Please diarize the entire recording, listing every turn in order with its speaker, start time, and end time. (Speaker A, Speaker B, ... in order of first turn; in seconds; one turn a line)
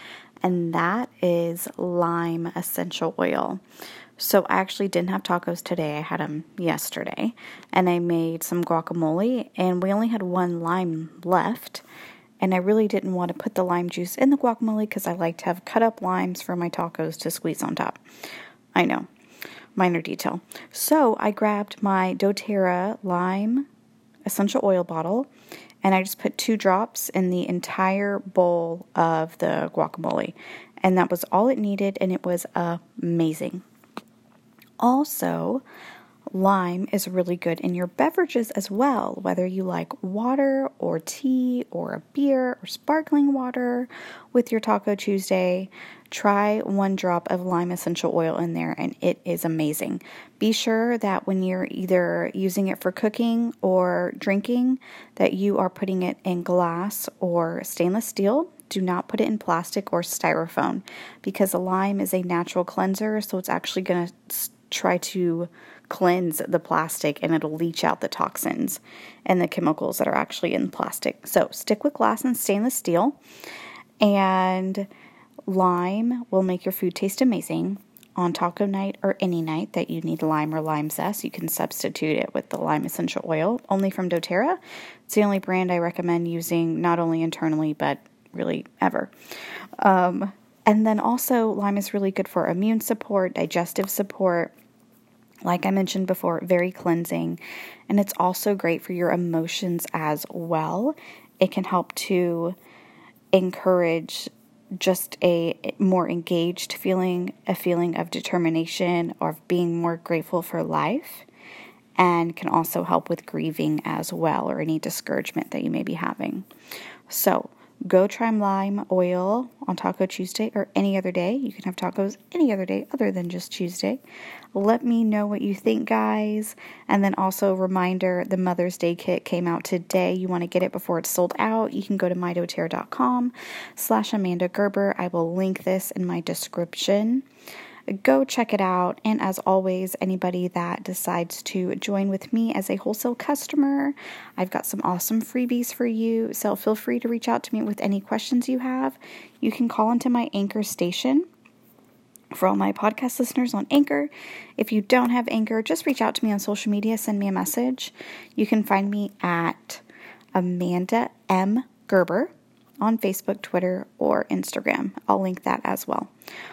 Speaker A: 0.4-3.6
Speaker A: 4.2-11.8
Speaker A: 12.4-18.0
Speaker A: 18.7-19.1
Speaker A: 19.8-23.7
Speaker A: 24.2-25.3
Speaker A: 25.8-33.6
Speaker A: 34.8-35.6
Speaker A: 36.3-73.2
Speaker A: 74.0-74.9
Speaker A: 75.5-89.1
Speaker A: 89.8-94.5
Speaker A: 95.4-102.6
Speaker A: 103.3-111.2
Speaker A: 112.0-116.5
Speaker A: 117.1-124.0
Speaker A: 124.5-137.2
Speaker A: 137.9-151.3
Speaker A: 152.3-159.8
Speaker A: 160.3-166.1